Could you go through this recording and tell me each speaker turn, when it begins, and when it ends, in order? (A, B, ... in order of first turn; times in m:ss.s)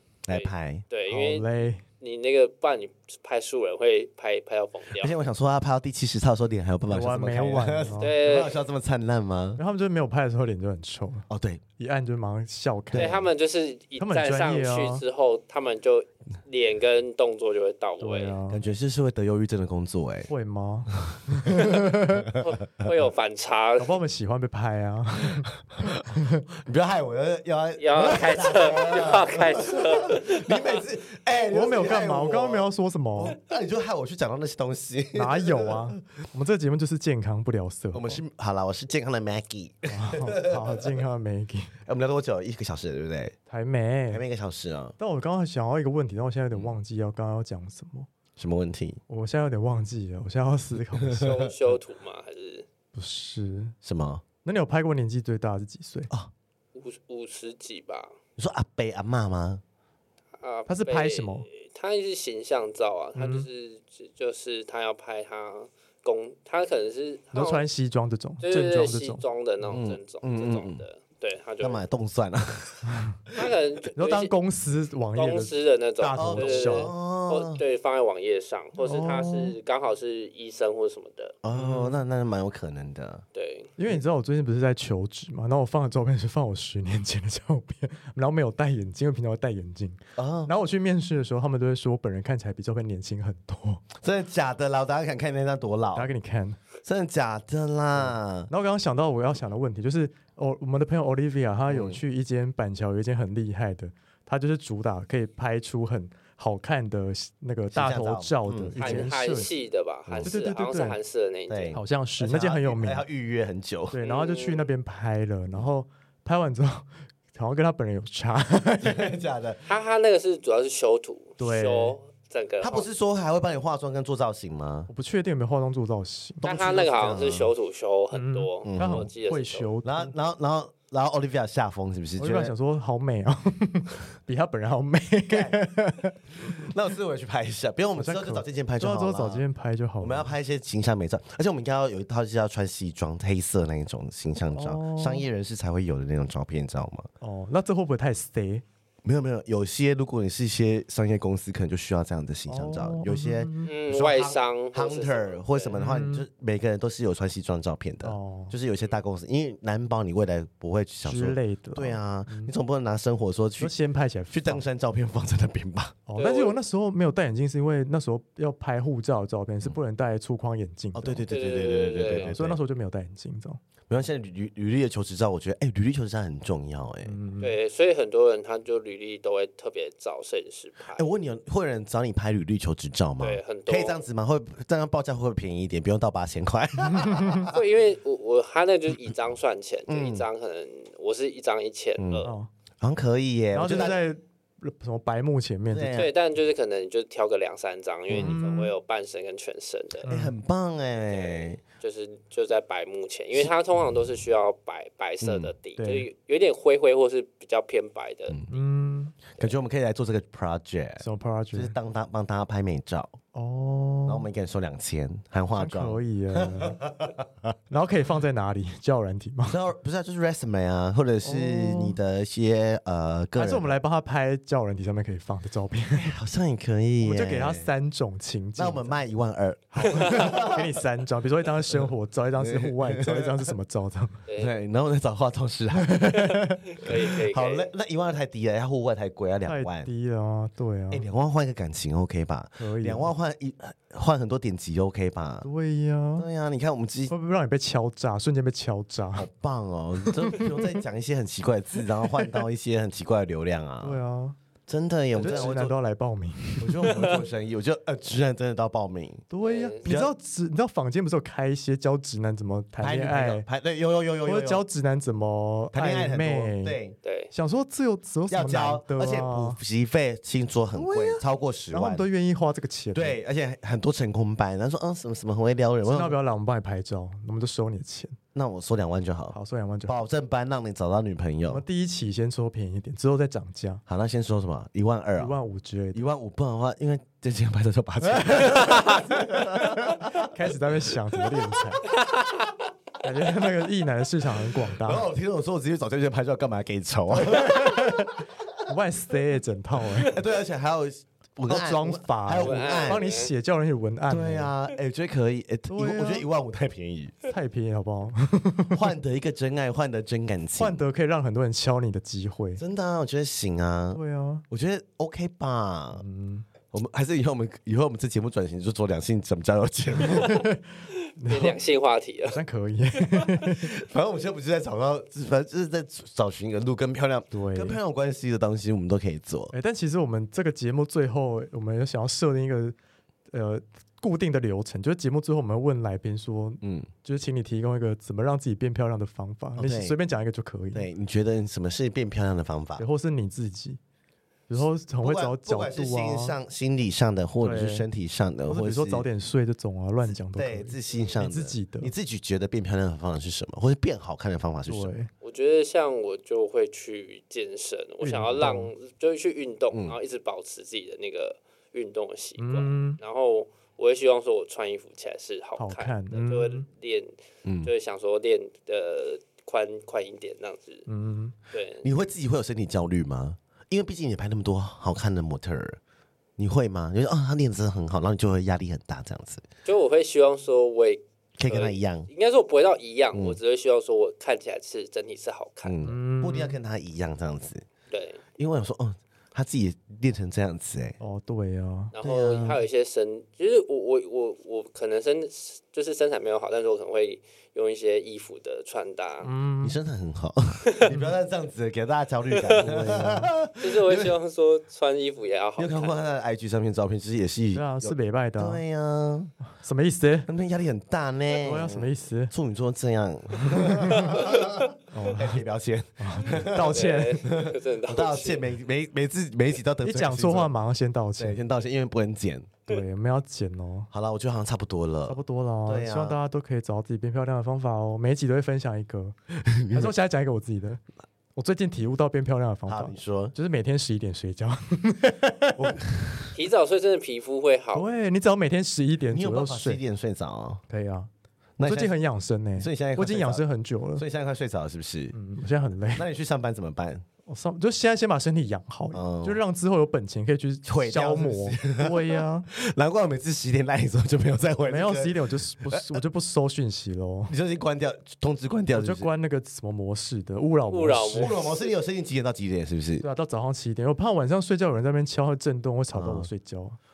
0:00.3-0:00.8 A
0:00.3-0:05.1 B
0:01.1-0:01.8 C
0:05.0-0:09.6 A
0:06.9-0:08.1 C
0:08.0-0:08.6 B
0:09.6-0:11.3 C
0:11.3-0:11.6 A
0:11.8-0:13.2 C
0:12.9-0:13.3 A
0:13.0-0:18.4 B
0:14.0-0:15.0 C
0:18.0-0:18.6 C
0:18.5-0:20.3 A
0:20.3-0:22.3 C
0:20.9-0:22.9 A
0:22.4-0:24.0 B
0:23.8-0:26.4 C
0:25.7-0:35.9 A
0:27.8-0:30.8 B
0:31.5-0:33.4 C
0:35.1-0:38.2 C
0:37.9-0:41.0 A
0:39.9-0:41.7 C
0:41.8-0:43.4 A
0:43.5-0:44.2 C
0:44.1-0:45.0 A
0:45.0-0:48.1 C
0:46.5-0:46.8 A
0:48.4-0:49.0 A
0:49.1-0:51.3 C
0:51.0-0:51.5 A
0:51.2-0:52.7 B
0:52.9-0:53.8 C
0:53.8-0:54.2 A
0:54.4-0:56.1 C
0:56.7-0:58.1 B
0:58.4-0:59.6 A
1:00.4-1:07.6 B
1:00.7-1:01.5 C
1:03.2-1:03.5 C
1:07.3-1:09.8 C
1:08.4-1:11.8 B
1:09.7-1:10.8 A
1:11.6-1:13.6 A
1:12.8-1:13.1 C
1:13.3-1:14.3 B
1:14.0-1:16.9 C
1:15.1-1:21.4 B
1:16.2-1:17.6 A
1:18.8-1:19.6 C
1:21.4-1:23.2 A
1:21.5-1:22.0 C
1:23.3-1:23.7 B
1:23.8-1:33.9 C
1:30.2-1:30.5 A
1:34.0-1:36.1 A
1:36.0-1:36.6 C
1:36.8-1:38.5 A
1:37.9-1:49.5 C
1:41.7-1:42.0 A
1:47.7-1:49.1 A
1:48.8-1:51.8 B
1:50.1-1:50.3 A
1:50.2-1:51.0 C
1:51.5-1:54.0 A
1:51.7-1:53.0 C
1:53.9-1:59.1 C
1:54.0-1:54.7 B
1:58.8-1:59.6 A
1:59.6-2:02.9 B
2:01.4-2:02.0 C
2:02.6-2:04.9 A
2:04.9-2:06.5 C
2:06.4-2:07.5 A
2:06.4-2:09.7 B
2:08.1-2:10.1 C
2:08.6-2:09.1 A
2:09.8-2:12.5 A
2:12.2-2:16.7 C
2:15.3-2:15.7 A
2:16.3-2:19.4 A
2:18.0-2:20.3 C
2:20.0-2:27.1 A
2:24.4-2:25.3 C
2:27.2-2:28.6 C
2:29.0-2:43.7 A
2:32.5-2:33.7 C
2:33.6-2:35.8 B
2:35.7-2:36.3 C
2:38.0-2:38.6 C
2:41.0-2:42.5 C
2:43.6-2:44.6 C
2:44.3-2:46.0 A
2:46.1-2:51.3 C
2:46.2-2:46.6 B
2:51.0-2:52.6 A
2:51.3-2:52.3 B
2:52.0-2:53.6 C
2:53.9-2:57.1 A
2:57.0-2:57.5 C
2:57.4-3:01.1 B
3:01.0-3:07.6 A
3:03.2-3:04.0 B
3:06.9-3:07.5 C
3:07.5-3:12.3 B
3:09.9-3:10.3 A
3:12.0-3:12.3 A
3:12.2-3:12.5 C
3:12.8-3:14.0 A
3:13.5-3:16.0 C
3:15.7-3:16.1 A
3:15.9-3:20.1 B
3:18.1-3:18.4 A
3:18.1-3:18.7 C
3:20.0-3:20.4 C
3:20.1-3:21.6 A
3:21.1-3:28.4 B
3:25.2-3:25.5 A
3:25.8-3:26.1 C
3:28.3-3:28.6 A
3:28.5-3:29.2 C
3:29.3-3:33.2 A
3:31.0-3:31.7 C
3:33.3-3:34.3 C
3:34.0-3:37.3 A
3:35.5-3:36.8 C
3:37.7-3:39.6 C
3:39.5-3:43.8 A
3:41.2-3:42.0 C
3:43.4-3:46.2 C
3:46.0-3:47.7 A
3:47.0-3:49.0 C
3:48.6-3:50.7 A
3:49.7-3:54.2 C
3:52.4-3:53.5 A
3:54.3-3:54.5 B
3:54.4-3:59.9 A
3:55.7-3:56.6 C
3:56.7-3:57.7 B
3:59.4-4:01.0 C
4:00.9-4:05.5 A
4:02.6-4:03.1 C
4:05.4-4:06.3 C
4:06.2-4:07.1 A
4:07.1-4:09.3 C
4:09.1-4:14.0 A
4:10.0-4:10.6 C
4:12.0-4:12.4 C
4:13.8-4:14.4 C
4:14.7-4:15.8 A
4:15.1-4:17.0 C
4:16.6-4:19.2 A
4:19.3-4:23.4 C
4:19.4-4:19.9 B
4:19.8-4:20.1 A
4:22.8-4:24.6 A
4:24.2-4:26.8 C
4:25.7-4:27.0 A
4:27.0-4:27.3 B
4:27.3-4:29.6 C
4:28.3-4:32.1 A
4:30.7-4:33.2 C
4:33.0-4:36.2 A
4:35.8-4:38.2 C
4:38.3-4:41.6 A
4:39.3-4:40.0 C
4:41.5-4:43.8 C
4:43.9-4:45.4 A
4:45.2-4:46.0 C
4:45.9-4:51.3 A
4:48.0-4:51.9 C
4:52.0-4:52.5 B
4:53.0-4:55.1 C
4:54.8-4:58.5 A
4:57.1-5:00.2 C
5:00.0-5:03.1 A
5:01.5-5:04.5 C
5:02.3-5:03.3 B
5:04.1-5:07.1 A
5:05.7-5:06.3 C
5:07.3-5:08.9 C
5:08.7-5:10.8 A
5:10.6-5:12.6 C
5:12.6-5:14.0 A
5:13.9-5:14.4 C
5:14.5-5:16.0 A
5:16.0-5:16.5 C
5:16.7-5:20.3 A
5:20.0-5:20.6 C
5:21.2-5:21.6 C
5:21.3-5:22.4 B
5:22.3-5:23.7 C
5:23.5-5:29.5 A
5:27.3-5:27.8 C
5:29.5-5:32.8 C
5:33.3-5:40.9 C
5:36.6-5:36.9 A
5:39.6-5:40.0 A
5:40.7-5:42.8 A
5:42.8-5:43.8 C
5:44.5-5:46.4 C
5:44.6-5:49.1 A
5:47.4-5:47.9 C
5:48.5-5:51.9 C
5:50.1-5:54.9 A
5:54.7-5:55.1 C
5:55.2-6:07.1 B
5:58.0-5:58.7 C
6:02.4-6:03.0 C
6:05.6-6:06.7 C
6:07.4-6:07.7 A
6:07.6-6:10.9 B
6:10.9-6:11.4 C
6:11.5-6:11.8 B
6:11.8-6:15.8 A
6:16.4-6:19.4 A
6:19.6-6:25.8 B
6:21.4-6:22.1 A
6:23.1-6:23.4 A
6:25.6-6:27.6 A
6:25.8-6:26.6 C
6:27.9-6:28.2 B
6:28.4-6:31.0 A
6:31.0-6:31.9 C
6:32.0-6:39.3 B
6:32.0-6:32.6 A
6:39.2-6:39.8 C
6:39.6-6:44.2 A
6:40.9-6:41.1 C
6:42.3-6:42.7 B
6:42.6-6:43.3 C
6:43.6-6:46.0 B
6:45.6-6:49.3 A
6:47.5-6:48.6 C
6:49.6-6:50.3 C
6:50.3-7:00.5 A
6:51.4-6:52.3 C
6:53.4-6:54.3 C
6:54.9-6:55.4 C
6:56.0-6:57.2 C
6:56.7-6:58.4 B
6:59.8-7:01.4 C
7:01.2-7:02.6 A
7:02.7-7:03.9 C
7:03.9-7:06.2 A
7:05.1-7:09.1 C
7:09.4-7:09.9 A
7:09.7-7:10.8 C
7:11.3-7:15.8 C
7:12.7-7:13.3 A
7:15.6-7:16.3 A
7:16.3-7:17.9 B
7:17.7-7:19.8 C
7:19.1-7:20.6 A
7:20.7-7:21.1 C
7:21.6-7:21.9 A
7:21.6-7:24.0 C
7:22.6-7:23.4 A
7:24.0-7:25.1 A
7:25.1-7:26.0 C
7:25.9-7:27.0 A
7:27.3-7:32.5 C
7:28.9-7:29.4 A
7:30.6-7:36.0 A
7:34.7-7:37.3 C
7:37.3-7:39.1 A
7:38.7-7:41.3 C
7:40.7-7:41.7 B
7:41.1-7:43.0 A
7:43.0-7:46.8 C
7:45.9-7:46.3 A